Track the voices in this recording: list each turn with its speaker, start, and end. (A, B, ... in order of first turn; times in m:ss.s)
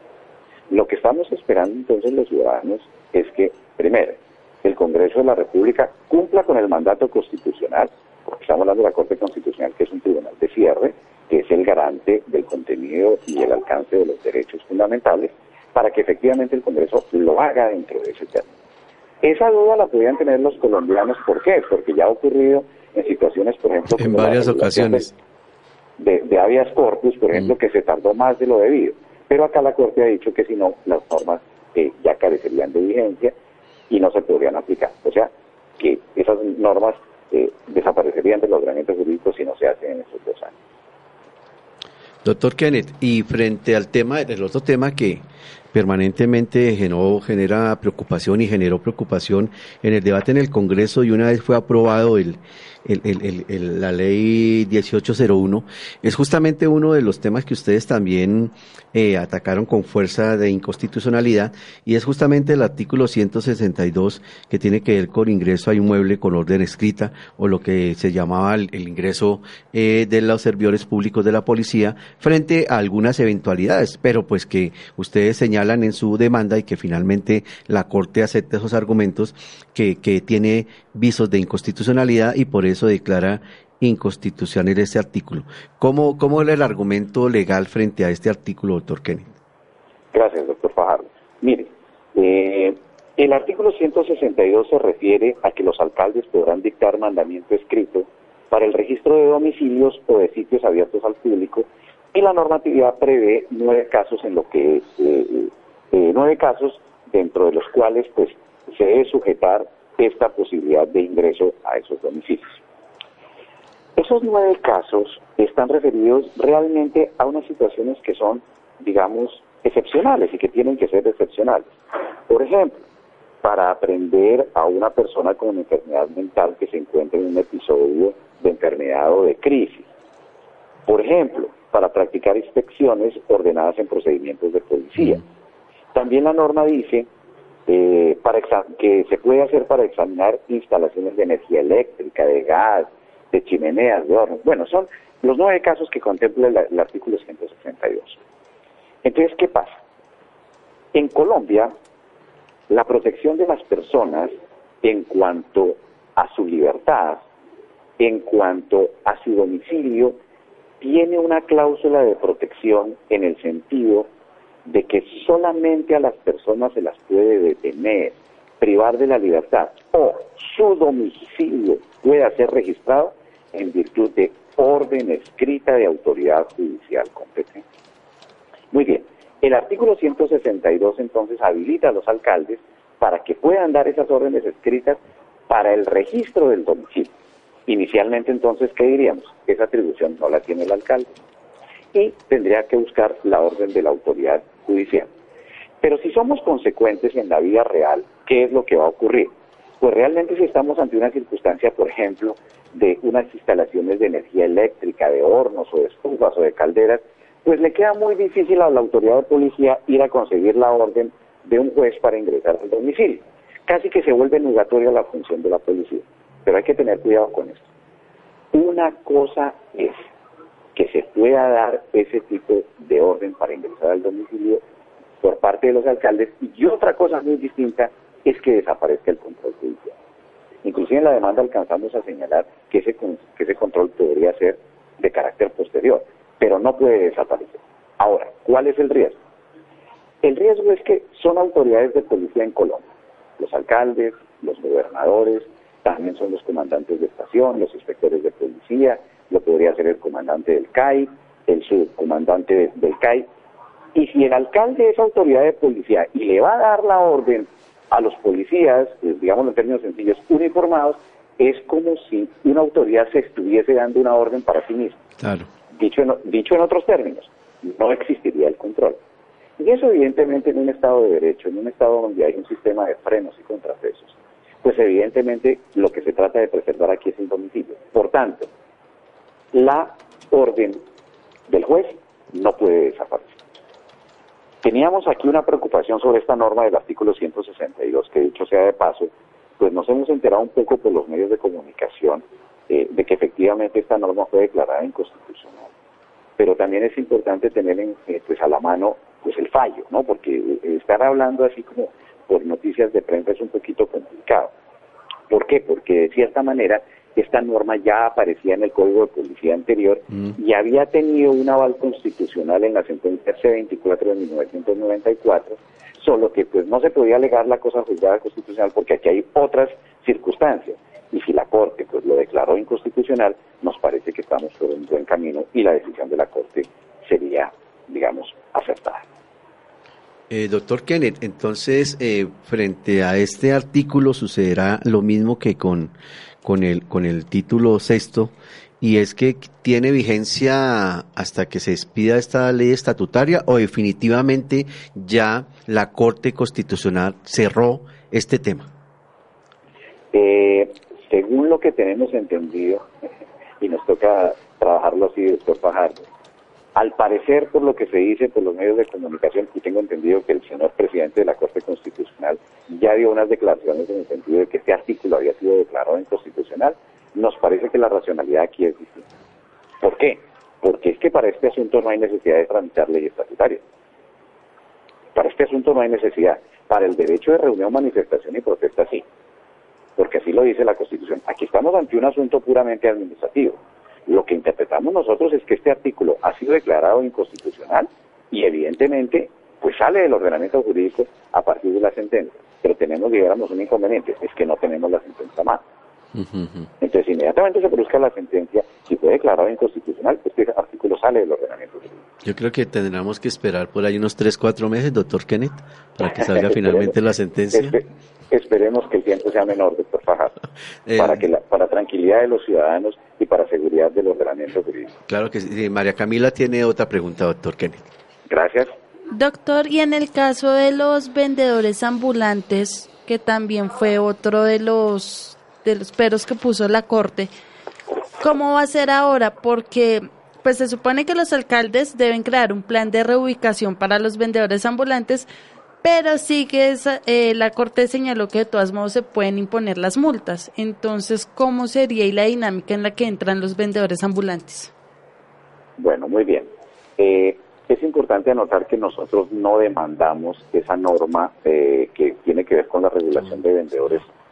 0:00.7-0:18.5 A
0:19.2-0:25.1 A
0:23.9-0:25.1 B
0:26.0-0:33.4 A
0:33.9-0:40.5 A
0:42.2-1:29.3 B
1:30.1-1:52.6 A
1:54.0-2:01.7 A
2:02.3-2:02.8 A
2:03.4-2:09.9 A
2:10.9-2:15.2 A
2:15.9-2:17.1 A
2:17.7-2:28.2 A
2:29.0-2:29.8 A
2:30.9-2:31.7 A
2:32.7-2:37.2 A
2:38.0-2:40.2 A
2:40.8-2:44.1 A
2:44.6-2:57.6 A
2:58.7-3:07.1 A
3:07.7-3:11.1 A
3:11.9-3:15.1 A
3:15.8-3:37.6 A
3:38.5-3:40.0 A
3:40.8-3:44.6 A
3:45.2-3:49.9 A
3:50.6-3:59.2 A
4:00.2-4:02.9 A
4:03.4-4:13.3 A
4:14.0-4:25.0 A
4:25.2-4:25.5 B
4:25.7-4:29.0 A
4:29.6-4:38.5 A
4:39.5-4:40.8 A
4:41.5-4:43.4 A
4:44.6-4:55.7 A
4:56.4-5:04.5 A
5:05.3-5:29.0 A
5:30.3-5:48.7 B
5:50.1-5:52.9 A
5:53.6-5:56.0 A
5:56.8-6:09.1 A
6:09.8-6:13.6 A
6:15.2-6:19.0 A
6:20.0-6:35.6 A
6:36.2-6:36.7 B
6:36.8-6:42.0 A
6:42.2-6:47.8 B
6:46.0-6:47.0 A
6:47.5-6:50.4 A
6:50.9-6:51.2 B
6:51.0-6:55.0 A
6:55.1-6:57.8 B
6:58.3-6:58.7 A
6:59.1-7:07.3 C
7:08.2-7:15.3 C
7:15.8-7:24.7 C
7:25.8-7:34.1 A